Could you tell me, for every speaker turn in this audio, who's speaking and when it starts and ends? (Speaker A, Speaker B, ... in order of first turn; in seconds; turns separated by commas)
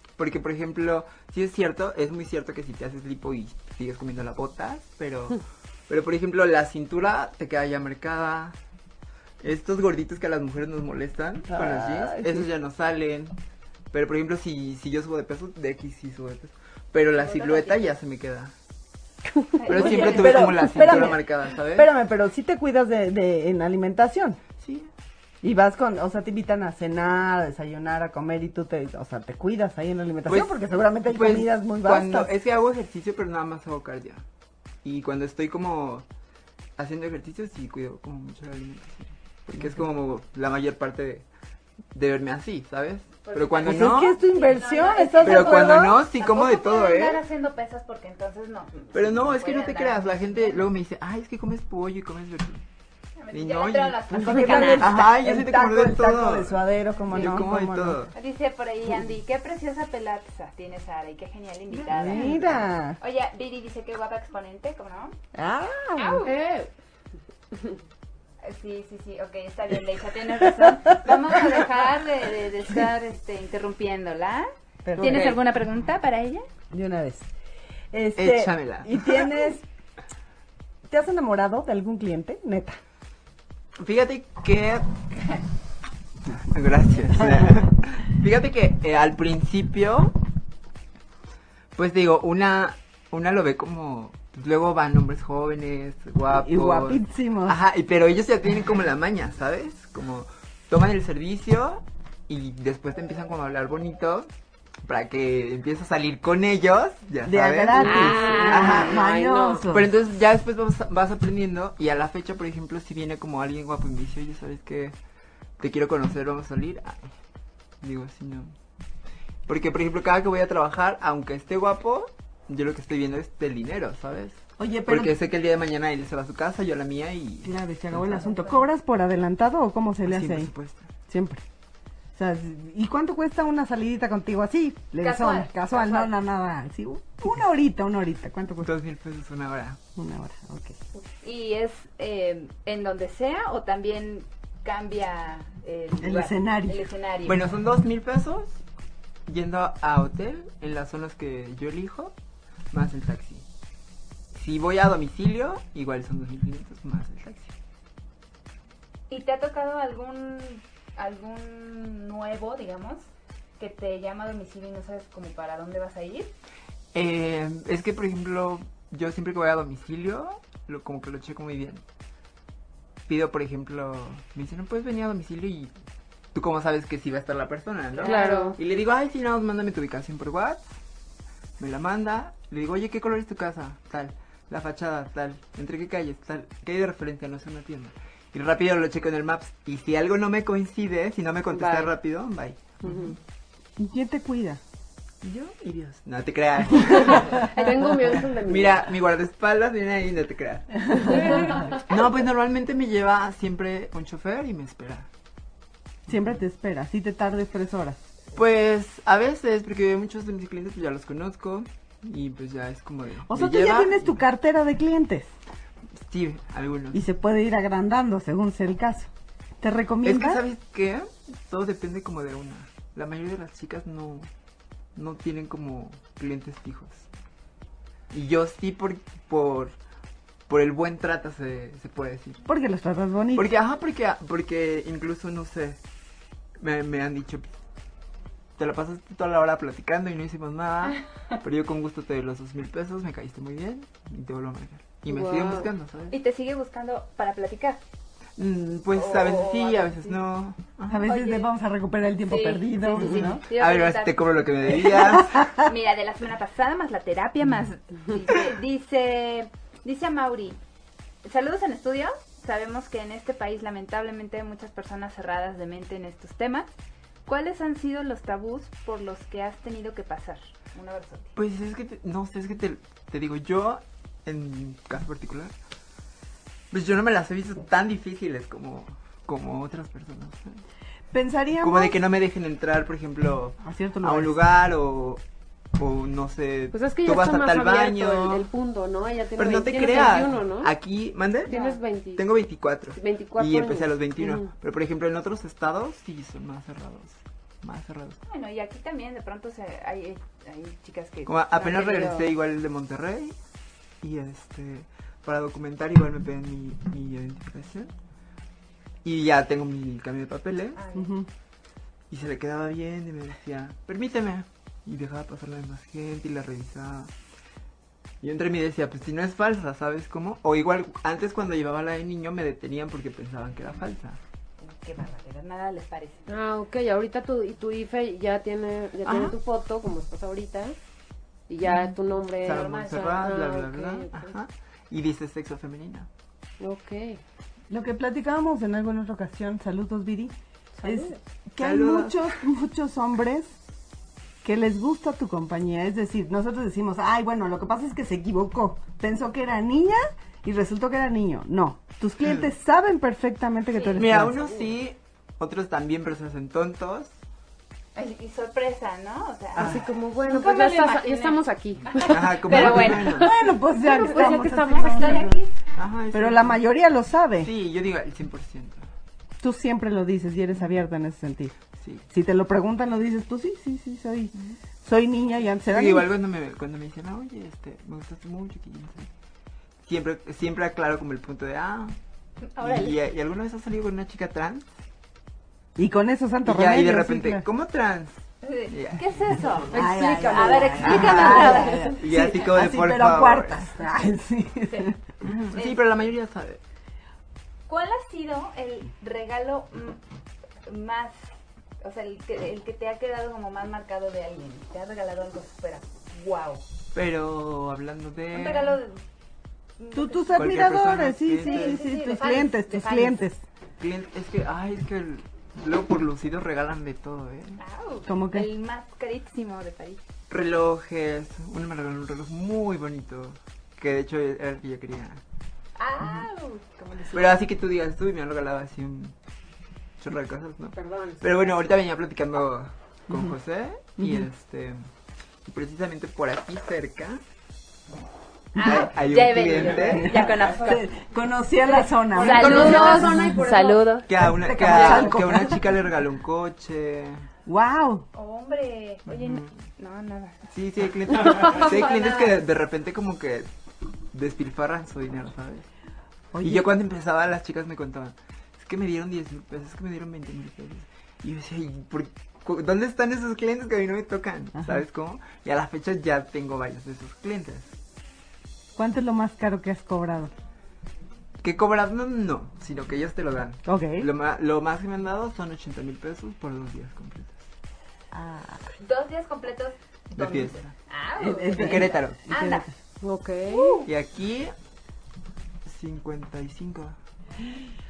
Speaker A: 0.2-8.6, Speaker A: 9.4-13.3, Speaker B: 11.5-12.5, Speaker A: 13.9-18.5, Speaker C: 17.1-17.9, Speaker C: 19.6-21.1, Speaker A: 19.7-21.9, Speaker B: 19.7-24.4, Speaker A: 24.6-24.9, Speaker B: 25.4-32.3, Speaker A: 30.3-34.2, Speaker A: 34.8-36.0, Speaker A: 36.8-41.2, Speaker B: 39.5-39.8, Speaker A: 41.9-44.1, Speaker C: 43.2-50.6, Speaker B: 43.6-46.0, Speaker A: 45.2-47.2, Speaker A: 48.9-52.6, Speaker C: 53.2-55.0, Speaker A: 53.3-58.1, Speaker B: 54.1-58.0, Speaker C: 58.1-65.2, Speaker A: 61.8-62.6, Speaker B: 61.9-63.0, Speaker B: 65.3-66.3, Speaker C: 66.0-66.3, Speaker D: 66.2-66.7, Speaker C: 68.4-76.4, Speaker B: 74.8-75.3, Speaker A: 75.0-75.4, Speaker B: 76.7-77.3, Speaker B: 77.9-79.6, Speaker A: 78.2-79.3, Speaker B: 80.9-82.8, Speaker A: 83.8-85.0, Speaker A: 86.4-90.1, Speaker A: 91.8-104.3, Speaker B: 96.3-97.6, Speaker A: 104.8-109.0, Speaker B: 107.2-109.9, Speaker D: 107.8-109.6, Speaker A: 109.7-114.9, Speaker A: 115.6-117.0, Speaker A: 117.8-118.5, Speaker A: 119.5-128.2, Speaker B: 124.6-125.1, Speaker B: 127.4-130.5, Speaker C: 128.1-128.7, Speaker A: 130.1-130.9, Speaker B: 131.1-131.4, Speaker B: 132.1-138.7, Speaker C: 135.0-136.1, Speaker A: 138.6-139.8, Speaker B: 139.9-140.8, Speaker C: 141.1-147.5, Speaker B: 146.0-146.8, Speaker A: 147.2-148.6, Speaker A: 149.3-152.1, Speaker A: 152.7-153.4, Speaker A: 154.3-157.5, Speaker C: 159.1-163.1, Speaker C: 163.6-166.3, Speaker A: 166.9-171.8, Speaker A: 173.1-175.7, Speaker A: 176.3-180.7, Speaker C: 177.9-178.6, Speaker D: 178.0-178.6, Speaker A: 181.6-193.2, Speaker D: 191.5-191.9, Speaker D: 192.8-193.1, Speaker B: 193.8-194.6, Speaker A: 195.2-205.1, Speaker D: 196.8-198.8, Speaker B: 200.8-201.7, Speaker D: 200.9-201.8, Speaker B: 206.1-208.0, Speaker A: 208.3-214.2, Speaker B: 213.3-215.3, Speaker A: 216.0-217.0, Speaker B: 216.9-220.4, Speaker A: 220.0-224.3, Speaker A: 224.9-227.1, Speaker A: 228.1-229.7, Speaker A: 230.5-232.4, Speaker B: 232.4-233.5, Speaker A: 233.3-235.8, Speaker A: 236.6-237.5, Speaker A: 238.6-246.1, Speaker C: 240.9-241.4, Speaker D: 245.1-245.7, Speaker C: 246.1-247.8, Speaker A: 248.4-251.1, Speaker C: 248.9-250.2, Speaker B: 250.9-253.4, Speaker C: 251.1-251.5, Speaker C: 252.3-254.9, Speaker A: 253.2-255.4, Speaker C: 255.5-260.6, Speaker C: 261.2-266.7, Speaker C: 267.2-271.3, Speaker A: 271.4-275.5, Speaker A: 276.7-280.6, Speaker B: 281.1-282.0, Speaker A: 281.6-285.2, Speaker B: 283.6-284.4, Speaker A: 285.8-288.5, Speaker D: 286.7-290.7, Speaker A: 289.4-291.5, Speaker D: 291.4-292.2, Speaker C: 291.5-291.8, Speaker A: 292.1-298.2, Speaker D: 293.0-294.5, Speaker C: 298.3-302.3, Speaker A: 301.2-303.3, Speaker A: 304.0-307.9, Speaker A: 309.0-310.8, Speaker C: 310.7-311.1, Speaker B: 310.9-311.3, Speaker A: 312.1-317.1, Speaker A: 318.2-324.2, Speaker C: 324.6-326.3, Speaker D: 326.3-330.8, Speaker A: 329.0-329.4, Speaker D: 331.5-334.3, Speaker A: 332.4-336.1, Speaker C: 332.4-333.2, Speaker D: 336.6-337.2, Speaker B: 337.7-343.6, Speaker D: 340.8-341.1, Speaker A: 341.6-342.3, Speaker B: 344.4-354.4, Speaker A: 353.9-357.1, Speaker D: 354.2-354.5, Speaker C: 357.9-363.2, Speaker D: 359.6-365.3, Speaker A: 362.1-363.3, Speaker B: 362.6-365.4, Speaker C: 363.9-365.5, Speaker A: 365.7-366.6, Speaker B: 366.1-367.5, Speaker A: 367.4-368.8, Speaker B: 369.4-371.5, Speaker A: 371.8-372.1, Speaker B: 372.1-376.1, Speaker A: 375.7-379.1, Speaker A: 379.8-381.9, Speaker C: 382.5-382.9, Speaker A: 382.6-384.7, Speaker B: 385.8-387.4, Speaker A: 386.4-389.1, Speaker C: 388.4-391.9, Speaker D: 389.7-391.9, Speaker B: 389.7-395.0, Speaker A: 390.8-393.7, Speaker A: 395.2-396.6, Speaker C: 395.5-396.0, Speaker C: 397.7-400.0, Speaker C: 400.6-401.2, Speaker C: 401.8-406.6, Speaker A: 406.9-408.8, Speaker C: 408.3-409.0, Speaker C: 409.8-410.5, Speaker B: 409.9-413.4, Speaker A: 410.4-411.8, Speaker C: 411.4-413.3, Speaker A: 413.8-417.6, Speaker C: 417.6-420.0, Speaker B: 418.1-418.5, Speaker A: 420.3-425.2, Speaker C: 425.8-427.4, Speaker A: 427.1-429.1, Speaker A: 430.0-434.8, Speaker D: 430.7-431.5, Speaker B: 433.1-433.3, Speaker B: 434.0-434.3, Speaker A: 435.4-437.2, Speaker B: 438.6-438.9, Speaker C: 438.6-440.9, Speaker A: 438.6-440.3, Speaker B: 439.9-443.4, Speaker D: 442.1-443.9, Speaker C: 442.1-444.1, Speaker A: 442.7-443.0, Speaker A: 444.1-447.3, Speaker B: 444.1-445.6, Speaker C: 444.7-445.0, Speaker B: 447.4-448.0, Speaker C: 448.1-450.4, Speaker A: 449.1-449.5, Speaker A: 450.5-453.5, Speaker D: 451.2-452.3, Speaker A: 454.1-455.7, Speaker B: 456.3-456.7, Speaker A: 456.4-467.7, Speaker B: 464.5-464.8, Speaker B: 468.8-470.3, Speaker A: 471.4-477.4, Speaker B: 473.6-474.1, Speaker B: 478.1-478.6, Speaker C: 478.8-482.6, Speaker A: 480.1-480.7, Speaker B: 481.2-482.7, Speaker A: 481.5-482.2, Speaker D: 483.0-483.8, Speaker C: 483.5-483.9, Speaker A: 483.9-484.5, Speaker A: 485.6-486.9